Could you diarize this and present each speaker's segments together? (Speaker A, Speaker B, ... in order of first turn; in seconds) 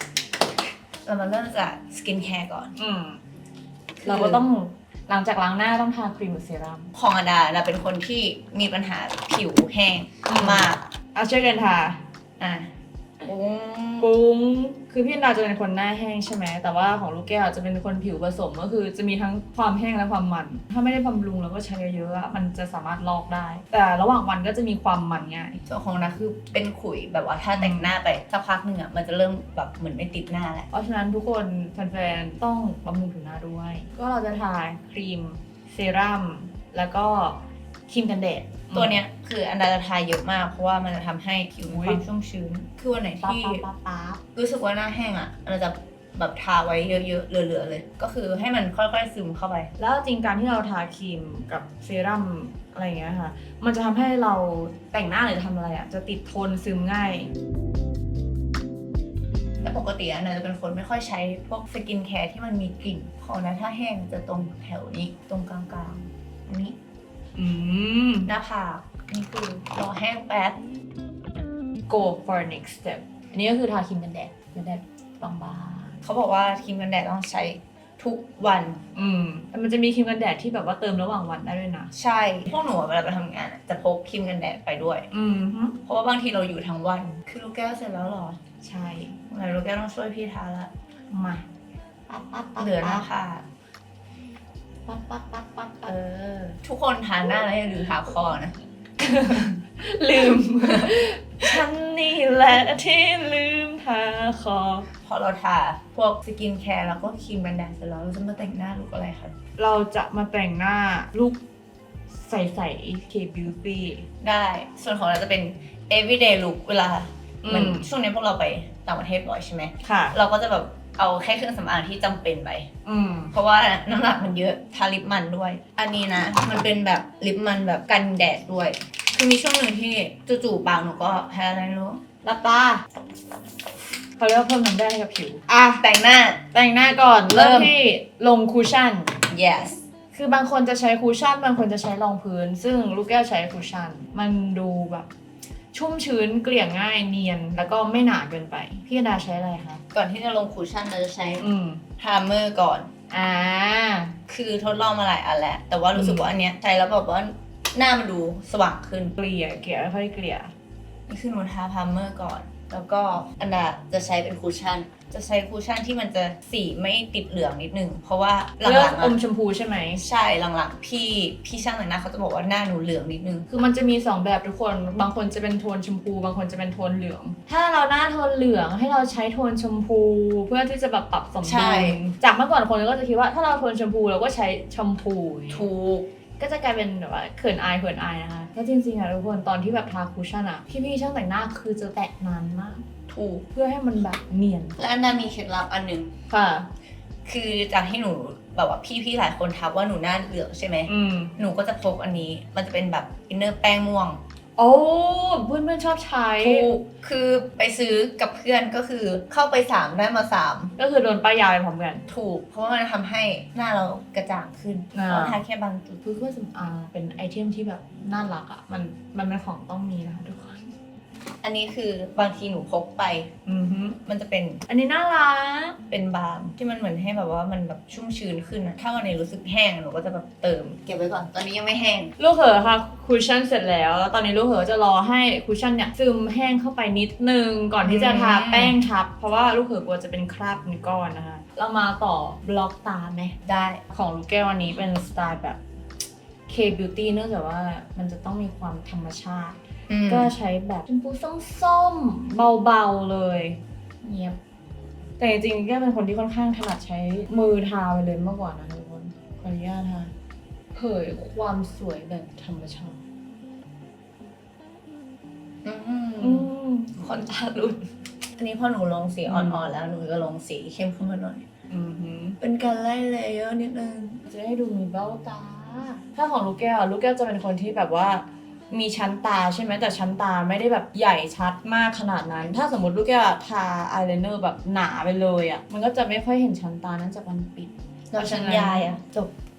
Speaker A: 1.1-2.8, 4.0-4.4, 7.0-10.8, 12.4-12.7, 13.2-14.1, 25.7-30.7, 38.7-43.6, 44.4-49.7, 59.6-66.8, 68.3-70.6, 76.0-78.8, 81.9-85.1, 85.9-88.4, 89.3-90.7, 92.6-93.5, 95.9-98.6, 105.0-109.3, 114.2-122.7, 123.3-132.0, 135.8-136.4, 137.3-137.7, 139.3-139.8, 149.9-151.4, 152.0-152.9, 154.3-159.2, 161.1-169.2, 170.0-173.5, 181.4-182.1, 185.5-186.1, 193.1-193.5, 194.8-196.1, 197.3-204.2, 206.4-210.7, 212.1-216.0, 221.4-223.3, 224.1-224.6, 225.9-232.1, 237.8-238.8, 243.4-243.8, 249.9-250.3, 265.6-271.4, 272.4-274.3, 288.1-289.3
Speaker B: 2.8-3.2, 4.0-6.9, 10.3-12.0, 14.0-25.6, 27.5-27.9, 30.7-39.0, 41.7-42.0, 43.2-44.2, 49.8-57.3, 67.4-68.3, 71.9-76.0, 79.0-81.9, 85.1-85.8, 88.6-89.2, 91.1-91.5, 92.1-93.1, 94.9-95.9, 99.0-104.9, 109.6-111.4, 112.1-114.1, 117.4-117.9, 119.8-120.2, 122.9-123.3, 132.2-132.8, 134.2-135.8, 136.5-139.2, 140.1-145.1, 145.7-149.8, 151.4-151.8, 153.1-154.2, 155.9-156.3, 159.2-160.5, 168.6-170.0, 173.5-185.7, 186.4-192.9, 193.5-194.8, 196.3-196.7, 200.9-201.3, 204.6-206.7, 210.8-212.0, 214.9-215.4, 216.0-220.7, 223.5-224.0, 224.7-225.8, 232.2-243.4, 243.9-245.6, 246.5-254.4, 255.2-260.1, 260.8-263.0, 266.2-267.0, 269.3-269.7, 271.7-272.4, 274.3-289.0